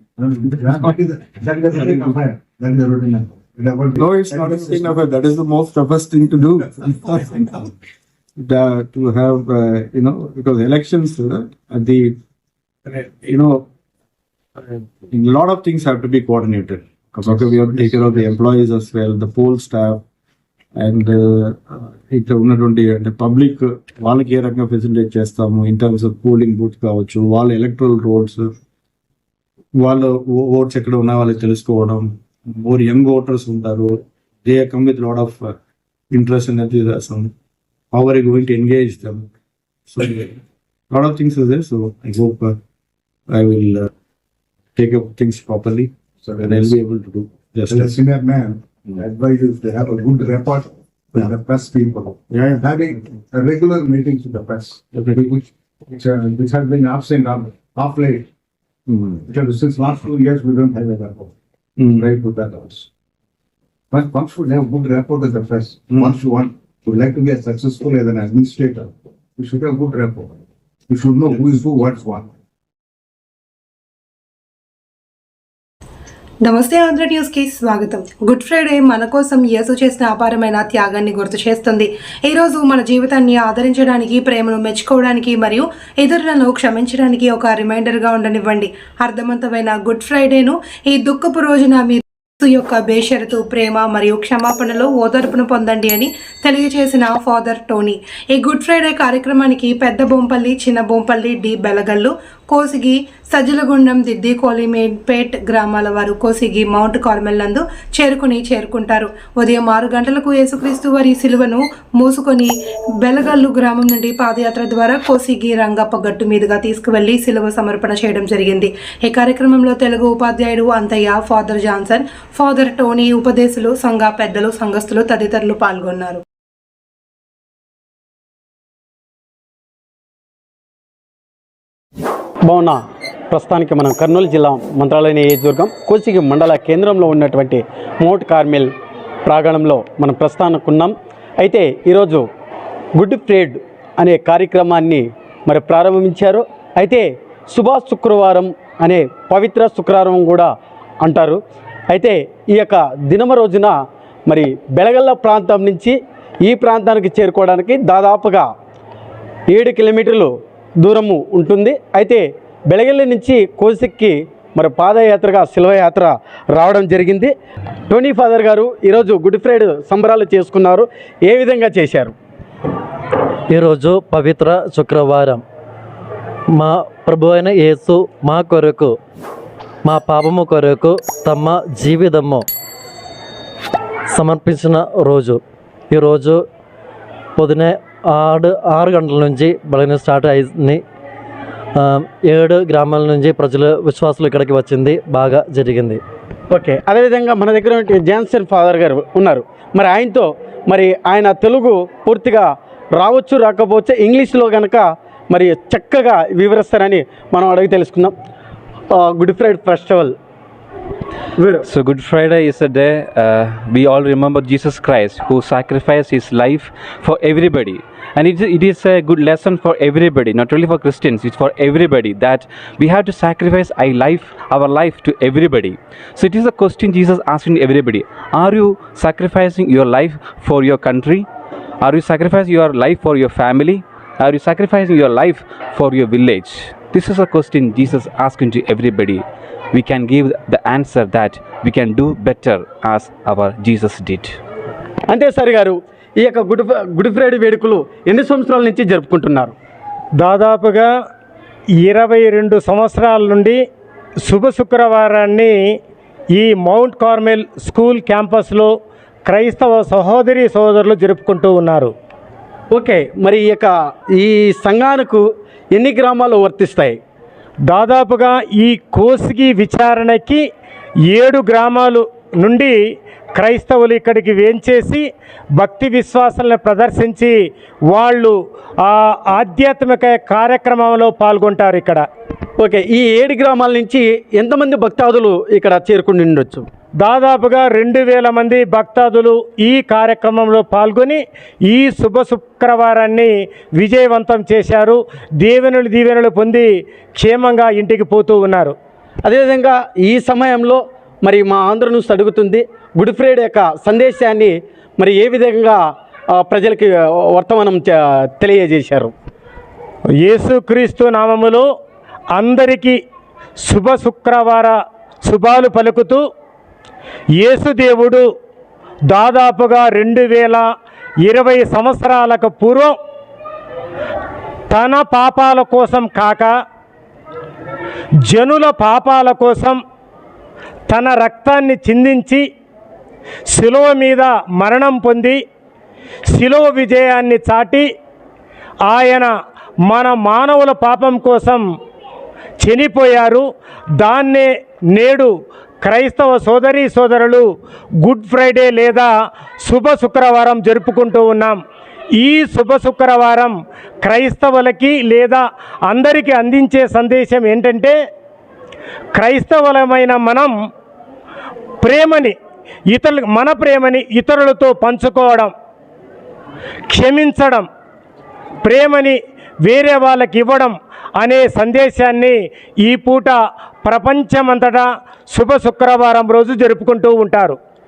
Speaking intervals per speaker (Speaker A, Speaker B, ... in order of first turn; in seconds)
Speaker A: 0.2-5.0, 46.2-46.7, 47.7-58.3, 59.3-61.3, 61.9-62.9, 63.9-70.4, 70.9-72.3
Speaker B: 0.5-1.0, 1.7-2.1, 3.9-7.6, 8.4-12.2, 12.9-13.7, 14.6-20.0, 20.8-28.5, 29.8-35.6, 36.1-37.3, 37.9-39.3, 39.9-40.3, 40.9-42.6, 43.3-43.9, 44.8-48.0, 52.3-52.6, 54.9-55.2, 58.9-59.2
Speaker C: 76.4-126.2
Speaker D: 132.5-132.8, 133.3-138.7, 139.3-142.2, 143.0-150.5, 151.0-153.7, 154.3-158.5, 159.5-167.3, 167.9-172.1, 196.5-208.1, 208.9-210.1, 211.4-211.6, 245.1-249.5, 262.7-265.2, 265.7-267.0, 282.6-286.6, 299.2-305.8, 306.3-309.1
Speaker E: 173.5-175.4, 176.5-179.0, 179.8-182.4, 184.1-186.4, 187.4-190.8, 191.8-196.0
Speaker F: 211.6-231.2, 231.8-244.4
Speaker G: 250.2-250.9, 251.8-253.6, 254.3-255.7, 256.4-258.7, 259.3-261.9, 267.7-270.4, 271.1-272.8, 273.4-275.1, 275.6-277.4, 277.9-282.1, 287.0-298.7, 310.2-311.6, 312.3-313.0, 313.6-316.2, 317.4-318.3, 319.1-320.6, 321.3-322.9, 324.7-326.5, 328.3-329.8, 330.9-332.4, 333.5-335.4, 336.3-337.9, 338.9-339.3, 339.9-341.6, 342.6-343.5, 344.0-347.5, 348.0-349.1, 349.6-351.6, 352.2-358.0, 359.1-360.5, 361.8-362.3, 362.9-365.5, 366.9-367.7, 368.6-377.6